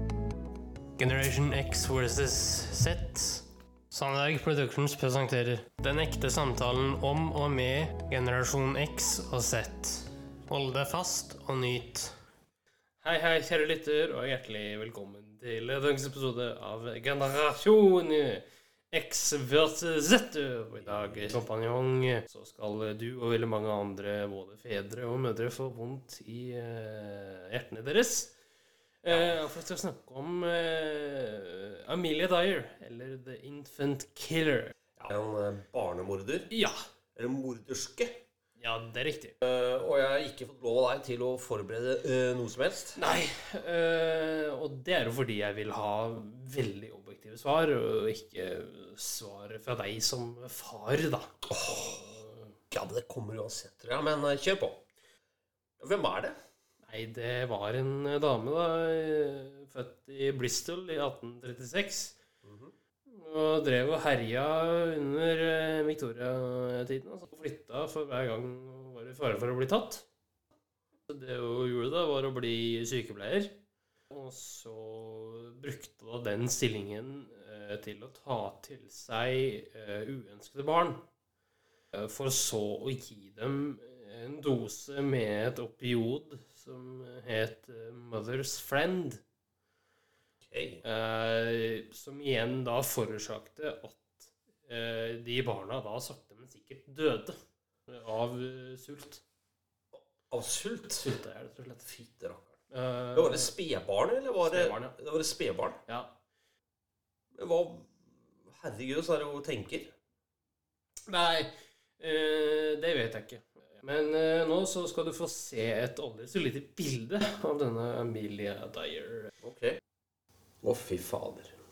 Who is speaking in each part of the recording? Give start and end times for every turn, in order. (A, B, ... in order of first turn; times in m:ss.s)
0:01.0-0:12.2 A
0:13.0-0:28.3 A
0:29.0-0:34.7 A
0:29.1-0:29.4 B
0:35.0-0:36.5 B
0:36.5-0:36.7 A
0:37.2-0:38.2 B
0:38.6-0:39.4 A
0:39.4-0:43.0 B
0:43.0-0:52.5 A
0:51.5-0:52.0 B
0:52.7-0:54.8 B
0:55.8-0:56.4 B
0:56.8-1:02.2 A
1:02.4-1:02.7 B
1:03.1-1:10.0 A
1:11.1-1:13.6 A
1:14.1-1:21.0 A
1:21.9-1:29.2 A
1:30.4-1:30.8 B
1:30.8-1:39.2 A
1:39.9-1:41.1 B
1:41.0-1:41.9 A
1:41.9-1:42.5 B
1:42.7-1:43.5 A
1:43.1-1:45.8 B
1:44.4-1:45.0 A
1:45.8-1:46.1 A
1:47.4-1:47.9 B
1:48.4-1:49.9 B
1:51.1-1:59.3 A
1:59.4-1:59.8 B
2:00.6-2:01.5 B